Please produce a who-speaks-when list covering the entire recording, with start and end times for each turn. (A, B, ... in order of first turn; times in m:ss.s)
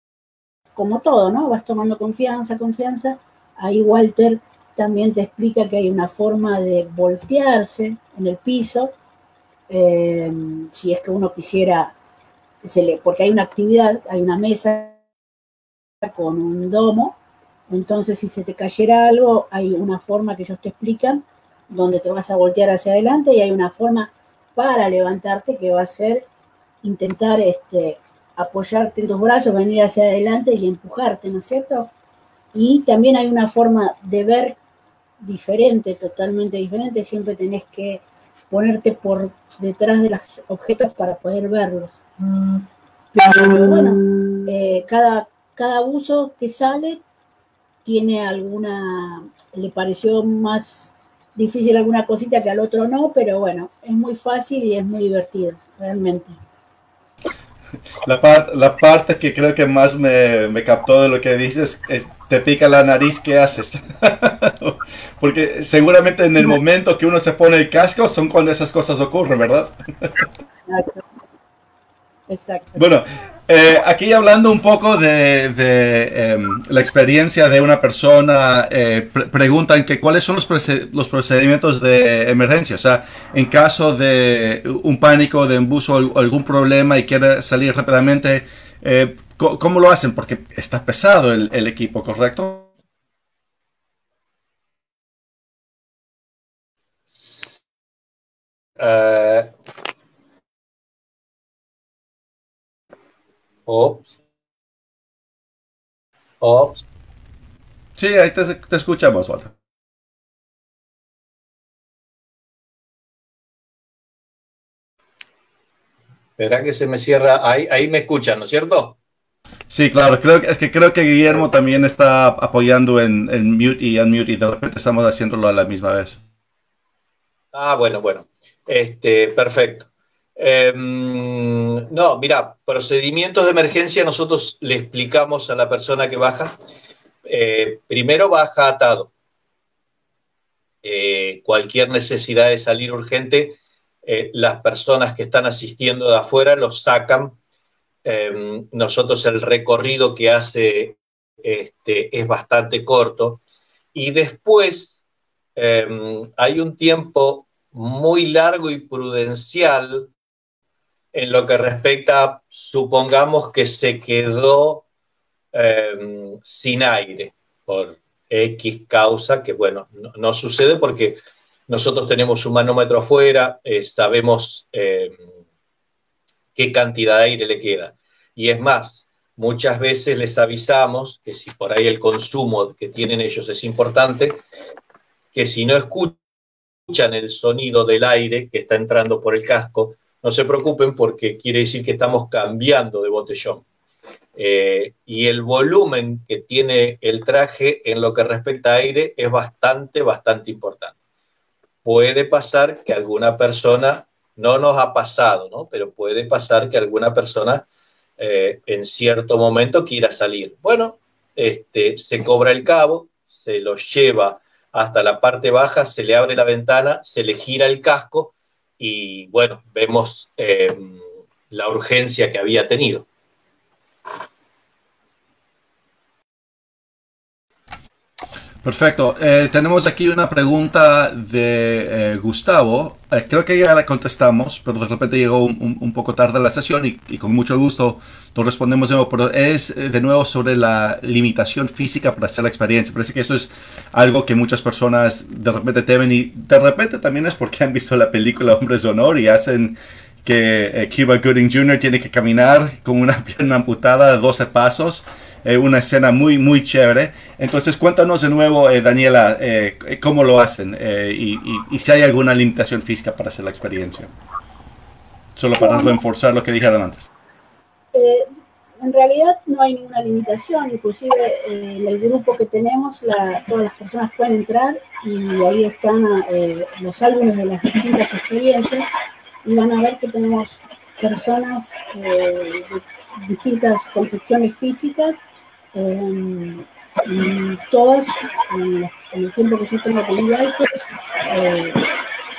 0:00.8-0:08.9 A
0:09.7-0:12.0 A
0:12.6-0:15.0 A
0:16.0-0:17.2 A
0:17.7-0:26.3 A
0:26.8-0:31.9 A
0:32.5-0:34.6 A
0:35.2-0:42.0 A
0:43.1-0:47.0 A
0:47.8-0:56.4 A
0:58.0-1:10.3 B
1:10.7-1:11.0 A
1:12.3-1:12.8 A
1:12.8-1:32.7 B
1:37.1-1:37.6 C
1:38.8-1:39.5 C
1:43.7-1:44.2 C
1:46.4-1:46.8 C
1:48.0-1:49.5 B
1:56.4-1:59.0 C
1:59.7-2:06.2 B
2:07.5-2:16.6 C
2:17.2-2:19.1 C
2:20.8-2:27.4 C
2:28.0-2:33.4 C
2:33.9-2:35.0 C
2:35.6-2:40.1 C
2:41.1-2:44.8 C
2:45.5-2:55.2 C
2:56.6-3:04.4 C
3:05.3-3:06.2 C
3:06.9-3:13.6 C
3:14.4-3:21.0 C
3:21.8-3:27.7 C
3:28.2-3:43.1 C
3:48.6-4:24.1 B
4:25.4-4:27.1 B
4:25.6-4:25.9 A
4:27.9-4:38.9 A
4:39.4-4:45.2 A
4:45.7-4:51.8 A